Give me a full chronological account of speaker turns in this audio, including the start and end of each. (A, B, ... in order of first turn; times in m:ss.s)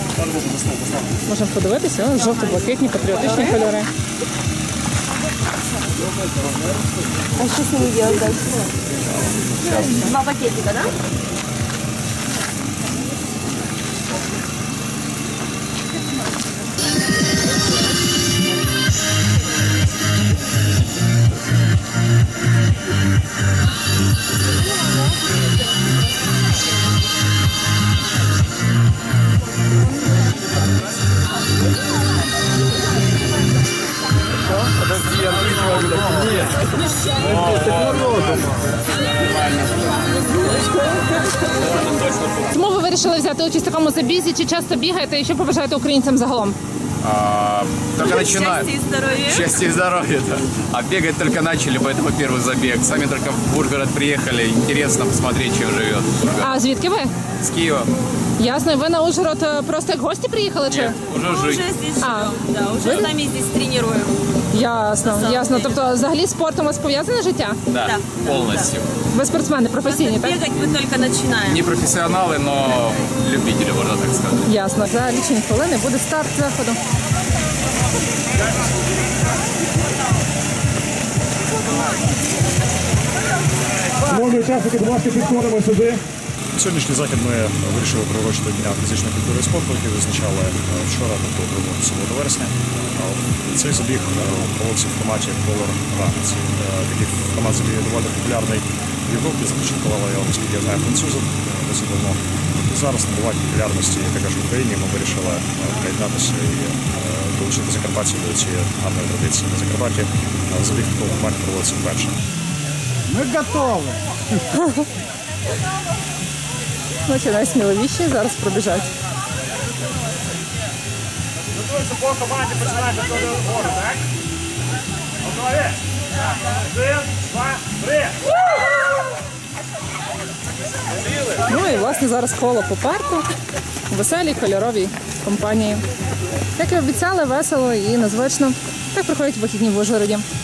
0:00.6-0:00.8 A
0:01.2-0:03.9 B
0:03.1-0:03.6 C
0:07.4-0:08.7 C
0:09.6-0:10.9 C
0:37.4-0:38.4 D
0:42.5-0:46.6 B
0:47.0-0:48.7 D
0:48.0-0:49.5 C
0:49.2-0:56.5 D
0:56.4-0:57.1 B
0:57.4-0:57.9 D
0:58.4-1:01.0 B
1:00.7-1:01.6 D
1:01.1-1:04.4 C
1:02.0-1:03.1 B
1:04.5-1:07.6 B
1:05.0-1:05.8 C
1:07.7-1:08.9 D
1:07.7-1:08.7 C
1:09.1-1:10.4 B
1:09.8-1:11.7 C
1:11.5-1:14.5 D
1:14.4-1:16.8 B
1:24.1-1:26.0 A
1:26.6-1:52.2 E
1:53.1-1:54.0 A
1:54.5-1:54.8 B
1:57.0-1:58.9 B
2:01.6-2:04.0 A
2:05.2-2:05.8 A
2:06.6-2:08.2 A
2:07.0-2:08.1 E
2:11.4-2:13.3 B
2:13.9-2:15.8 B
2:16.5-2:20.2 B